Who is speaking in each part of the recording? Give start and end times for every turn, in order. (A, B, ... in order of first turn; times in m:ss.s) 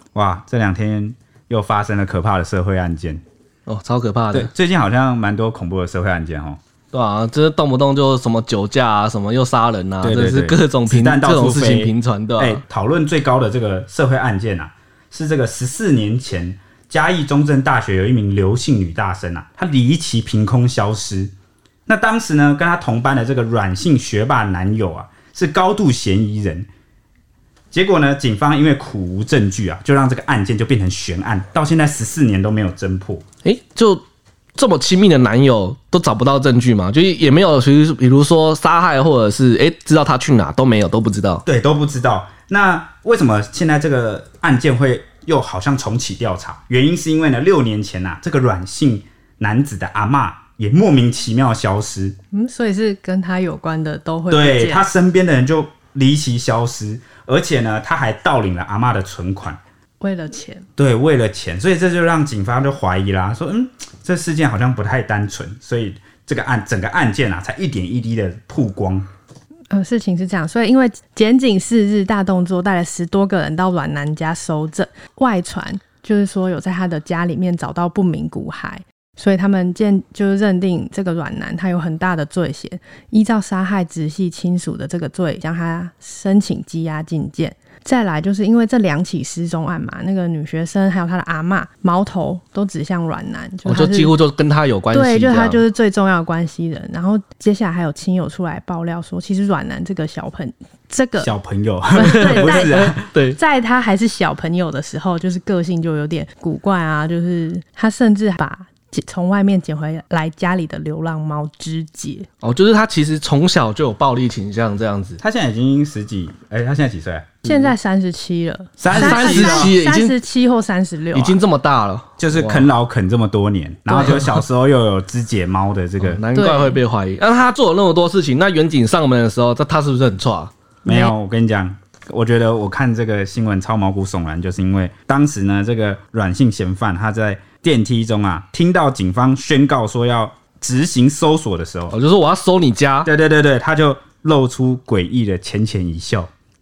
0:00.2-0:03.2 A
0:03.7-0:04.5 B
0:04.3-0:06.6 A
0:06.9-0:12.6 B
0:10.0-0:21.3 A
0:21.9-0:26.7 A
0:27.7-0:33.2 A
0:33.4-0:34.0 B
0:34.6-0:41.4 B
0:41.5-0:52.2 A
0:52.3-0:54.8 C
0:54.3-0:59.6 A
1:00.0-1:00.7 C
1:00.8-1:09.1 A
1:09.7-1:34.2 C
1:33.7-1:35.6 B
1:34.9-1:41.4 C
1:41.2-1:43.1 A
1:41.9-1:52.3 C
1:42.0-1:43.4 B
1:52.4-1:55.2 B
1:55.2-1:57.4 A
1:57.4-2:01.4 C
1:57.4-1:57.8 B
1:58.8-1:59.8 A
1:58.9-2:00.2 B
2:01.1-2:02.7 B
2:02.2-2:06.2 A
2:03.9-2:04.2 C
2:06.0-2:10.5 B
2:06.3-2:06.8 C
2:10.9-2:11.2 C
2:10.9-2:22.0 A
2:21.9-2:23.1 B
2:23.0-2:26.3 A